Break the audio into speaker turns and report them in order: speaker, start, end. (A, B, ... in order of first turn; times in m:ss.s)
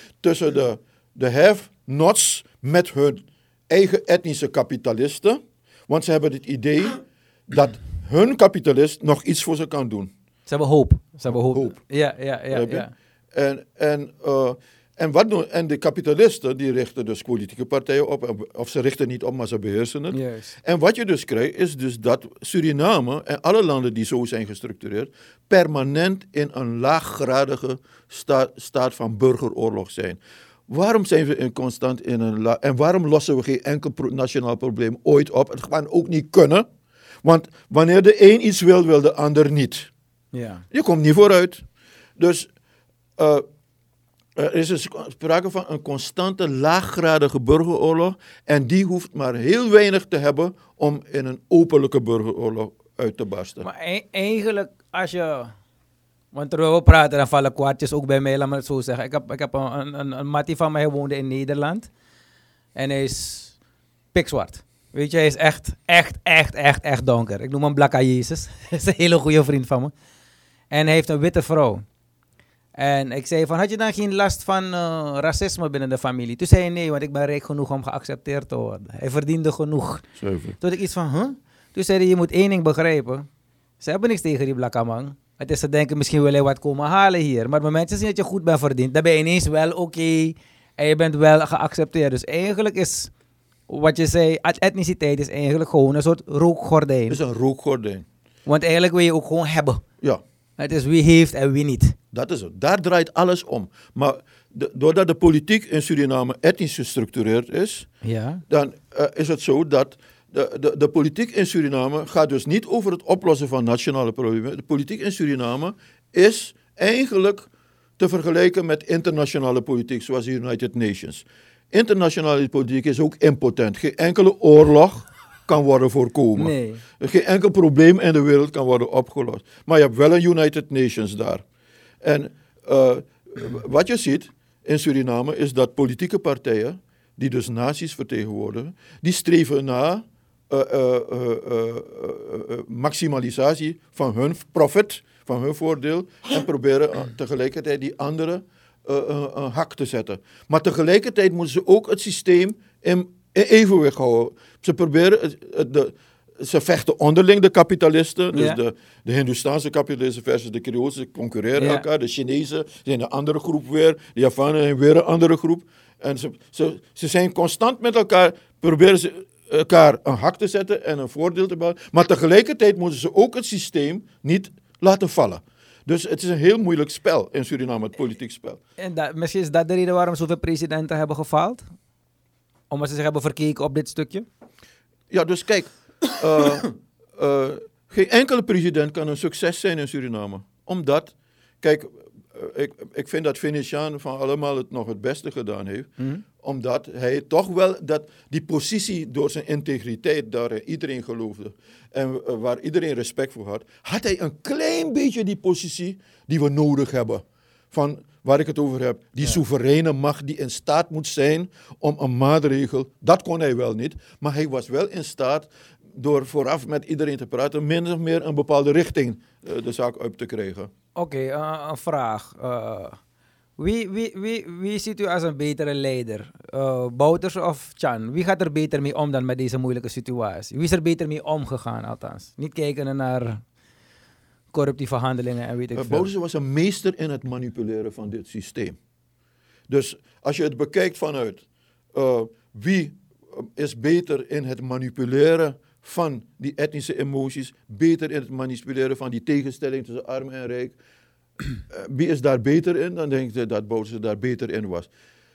0:00.2-0:10.1 A
0:10.5-0:12.9 B
0:11.3-0:11.8 A
0:12.5-0:36.7 A
0:20.1-0:20.6 B
0:37.2-0:39.9 A
0:40.3-0:40.6 B
0:40.7-0:41.6 A
0:42.2-0:42.5 A
0:43.2-0:43.4 A
0:44.4-0:53.7 A
0:53.6-0:55.5 B
0:56.3-1:01.9 B
1:02.8-1:03.6 B
1:04.1-1:09.9 B
1:10.7-1:11.8 B
1:12.8-1:23.3 B
1:20.2-1:20.6 A
1:23.8-1:33.1 B
1:33.7-1:37.2 B
1:37.1-1:38.1 A
1:38.5-1:39.8 B
1:40.6-1:42.0 B
1:42.1-1:47.9 A
1:48.0-1:48.4 B
1:48.5-2:11.4 A
2:06.4-2:06.8 B
2:12.0-2:58.6 A
2:38.3-2:38.6 B
2:41.6-2:41.8 B
2:58.8-3:01.6 B
3:02.7-3:04.3 B
3:05.1-3:40.7 A
3:41.0-3:43.0 B
3:43.6-3:53.4 B
3:54.5-3:56.1 B
3:55.7-3:58.8 A
3:59.7-4:01.4 A
4:01.9-4:10.8 A
4:11.7-4:14.9 A